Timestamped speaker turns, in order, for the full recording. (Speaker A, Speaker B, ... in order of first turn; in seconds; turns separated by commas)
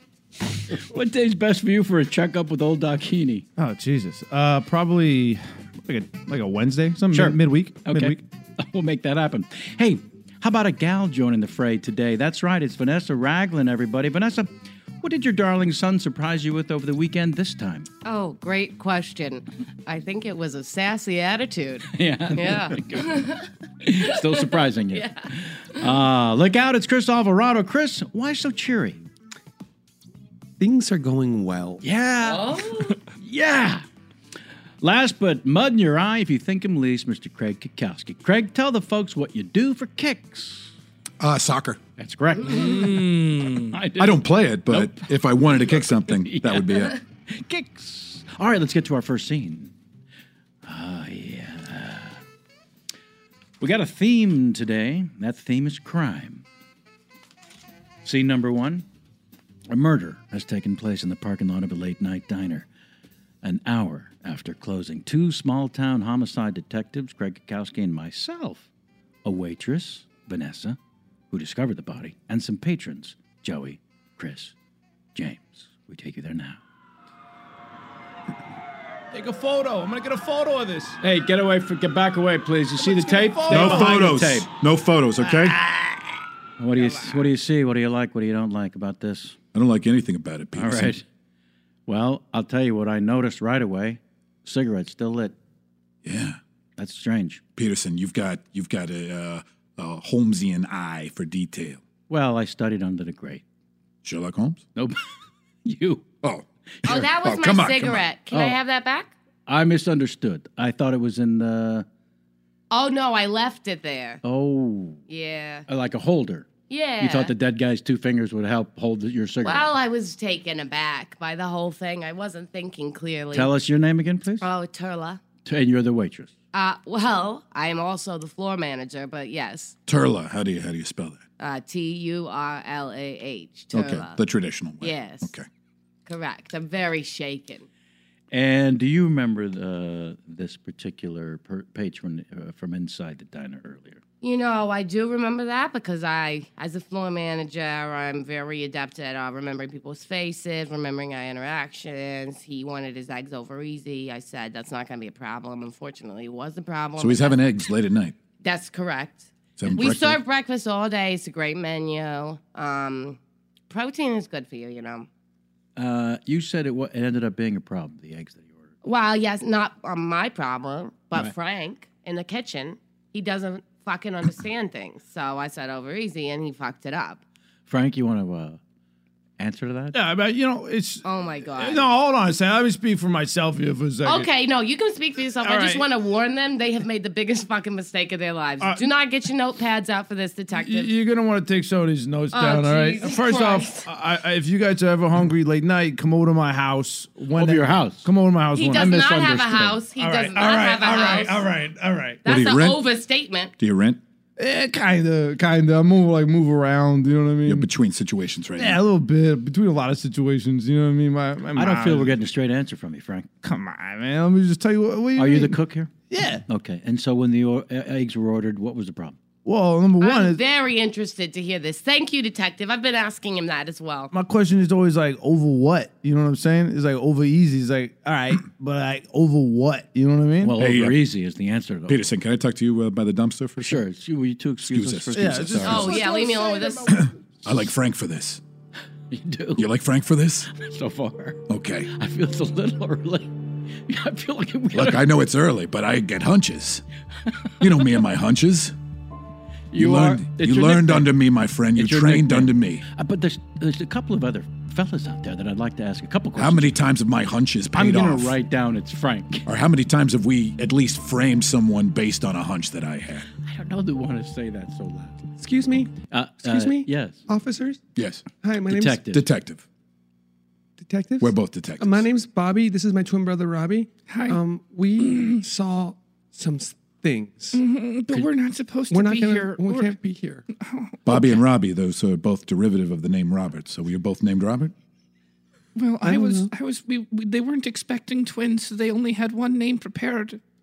Speaker A: 0.7-3.5, Speaker B: 3.6-8.2, Speaker A: 7.1-17.9, Speaker C: 18.0-23.4, Speaker A: 21.9-29.0, Speaker C: 24.0-25.3, Speaker D: 30.6-31.8, Speaker A: 31.8-33.8, Speaker C: 32.2-33.0, Speaker A: 34.8-40.7, Speaker E: 41.2-41.8, Speaker A: 42.0-49.7, Speaker C: 42.4-42.8, Speaker E: 44.0-47.0, Speaker A: 50.6-52.2, Speaker A: 53.6-56.4, Speaker A: 58.0-58.9, Speaker A: 59.7-62.7, Speaker A: 63.4-68.7, Speaker A: 69.2-70.8, Speaker A: 71.3-74.5, Speaker A: 75.1-76.6, Speaker B: 79.1-81.0, Speaker A: 81.0-84.5, Speaker B: 82.8-84.2, Speaker E: 83.5-85.6, Speaker B: 85.2-85.5, Speaker A: 86.6-89.4, Speaker B: 86.8-87.2, Speaker E: 89.5-91.0, Speaker A: 90.5-91.0, Speaker A: 91.9-95.3, Speaker E: 96.0-96.4, Speaker A: 96.8-97.4, Speaker E: 97.5-101.8, Speaker A: 102.1-103.4, Speaker E: 104.0-104.6, Speaker A: 105.6-106.1, Speaker E: 106.2-108.0, Speaker C: 106.8-109.1, Speaker A: 108.3-108.6, Speaker A: 109.5-111.8, Speaker C: 112.7-114.2, Speaker A: 114.2-115.0, Speaker C: 115.1-115.7, Speaker A: 115.7-119.7, Speaker C: 116.7-117.3, Speaker C: 119.4-123.5, Speaker A: 123.3-124.5, Speaker C: 124.4-125.2, Speaker A: 125.4-126.3, Speaker C: 126.5-129.8, Speaker E: 129.9-131.2, Speaker C: 131.4-134.2, Speaker E: 133.7-135.4, Speaker C: 134.8-135.3, Speaker C: 136.1-137.7, Speaker A: 138.3-144.0, Speaker C: 144.2-157.4, Speaker E: 157.0-158.1, Speaker C: 158.4-163.2, Speaker E: 159.6-160.2, Speaker C: 163.7-165.1, Speaker A: 165.8-168.6, Speaker C: 168.8-177.2, Speaker A: 177.7-178.6, Speaker A: 179.4-180.0, Speaker B: 179.9-181.0, Speaker C: 181.0-181.9, Speaker B: 181.6-184.3, Speaker C: 184.0-190.9, Speaker B: 185.4-185.8, Speaker B: 188.6-188.8, Speaker B: 190.5-199.1, Speaker C: 192.3-193.9, Speaker A: 197.3-199.8, Speaker C: 198.5-201.5, Speaker B: 199.9-202.2, Speaker C: 202.2-203.5, Speaker E: 202.2-202.8, Speaker E: 203.6-204.0, Speaker B: 204.4-207.7, Speaker E: 207.4-208.8, Speaker B: 208.6-212.2, Speaker A: 211.5-213.3, Speaker B: 213.4-216.4, Speaker A: 215.1-219.2, Speaker B: 219.4-220.4, Speaker C: 220.0-224.1, Speaker B: 224.1-230.6, Speaker A: 230.4-232.0, Speaker E: 230.6-231.0, Speaker E: 231.9-233.8, Speaker A: 233.6-236.0, Speaker E: 234.6-236.0, Speaker B: 235.1-237.0, Speaker C: 235.6-237.1, Speaker E: 236.9-238.4, Speaker A: 239.1-239.7, Speaker E: 239.6-240.5, Speaker A: 240.5-243.3, Speaker E: 241.5-241.9, Speaker A: 243.9-245.1, Speaker E: 244.7-246.8, Speaker E: 247.6-248.7, Speaker A: 249.7-251.2, Speaker E: 249.7-252.8, Speaker A: 251.7-256.8, Speaker E: 256.4-258.4, Speaker A: 257.7-259.5, Speaker E: 259.4-263.2, Speaker A: 263.4-265.3, Speaker D: 265.4-265.9, Speaker A: 265.8-267.2, Speaker D: 266.4-267.8, Speaker E: 267.9-268.3, Speaker D: 268.3-269.0, Speaker A: 268.7-269.2, Speaker E: 269.0-269.6, Speaker D: 270.8-277.6, Speaker E: 271.2-272.1, Speaker F: 274.1-274.4, Speaker F: 275.0-275.4, Speaker F: 277.5-279.9, Speaker D: 278.9-280.4, Speaker F: 280.5-281.4, Speaker E: 281.0-284.7, Speaker F: 285.7-290.4, Speaker D: 286.0-286.5